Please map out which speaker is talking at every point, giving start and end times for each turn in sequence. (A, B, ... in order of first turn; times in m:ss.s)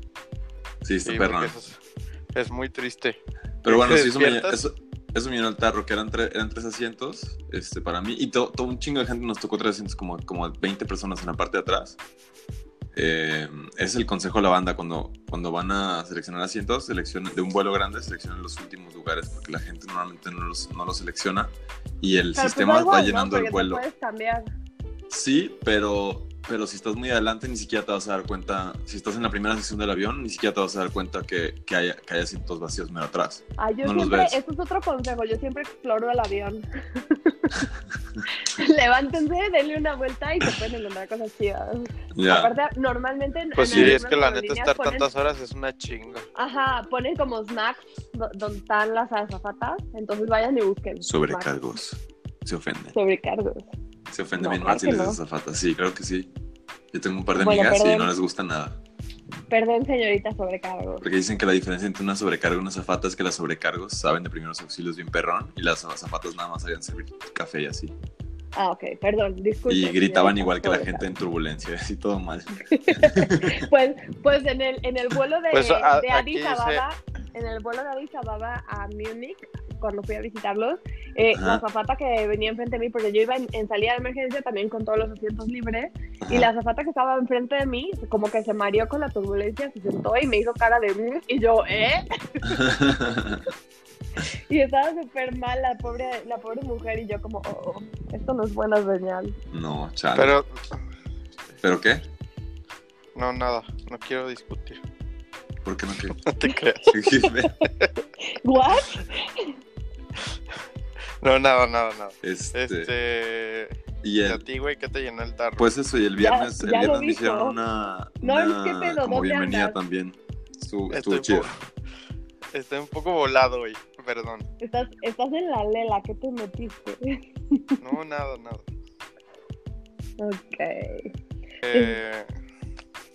0:00.8-0:01.5 A
0:01.0-0:01.8 B
0:02.3-0:04.6 B
0:03.6-0:12.0 A
0:12.9-0:23.8 A
0:22.4-0:24.5 C
0:25.1-0:34.4 A
0:33.6-0:37.7 C
0:38.4-0:45.1 C
0:42.1-0:42.5 A
0:43.6-0:46.3 B
0:43.7-0:44.0 A
0:46.4-0:51.5 C
0:51.0-0:53.0 A
0:52.9-0:53.7 C
0:54.1-0:56.3 A
0:54.4-0:55.2 C
0:56.9-0:58.8 A
0:57.4-0:58.1 C
0:59.5-1:01.1 C
1:01.0-1:07.9 A
1:08.6-1:11.1 C
1:09.7-1:13.6 A
1:12.6-1:32.8 C
1:15.5-1:16.8 B
1:21.3-1:21.6 A
1:26.2-1:26.5 A
1:32.6-1:33.4 A
1:34.5-1:39.4 C
1:39.5-1:40.4 A
1:40.2-1:40.5 B
1:41.6-1:42.1 A
1:43.2-1:44.8 B
1:45.6-1:46.2 A
1:46.2-1:46.9 B
1:46.5-1:47.7 C
1:46.9-1:47.6 A
1:48.2-1:49.5 C
1:51.2-1:53.7 B
1:52.2-1:52.9 A
1:54.0-1:54.4 A
1:54.2-1:55.7 B
1:55.6-2:01.5 A
1:56.2-1:57.6 C
1:58.2-1:59.8 C
2:00.9-2:01.6 B
2:02.5-2:04.5 B
2:04.6-2:07.0 C
2:07.8-2:08.6 B
2:10.2-2:11.1 C
2:11.6-2:12.3 B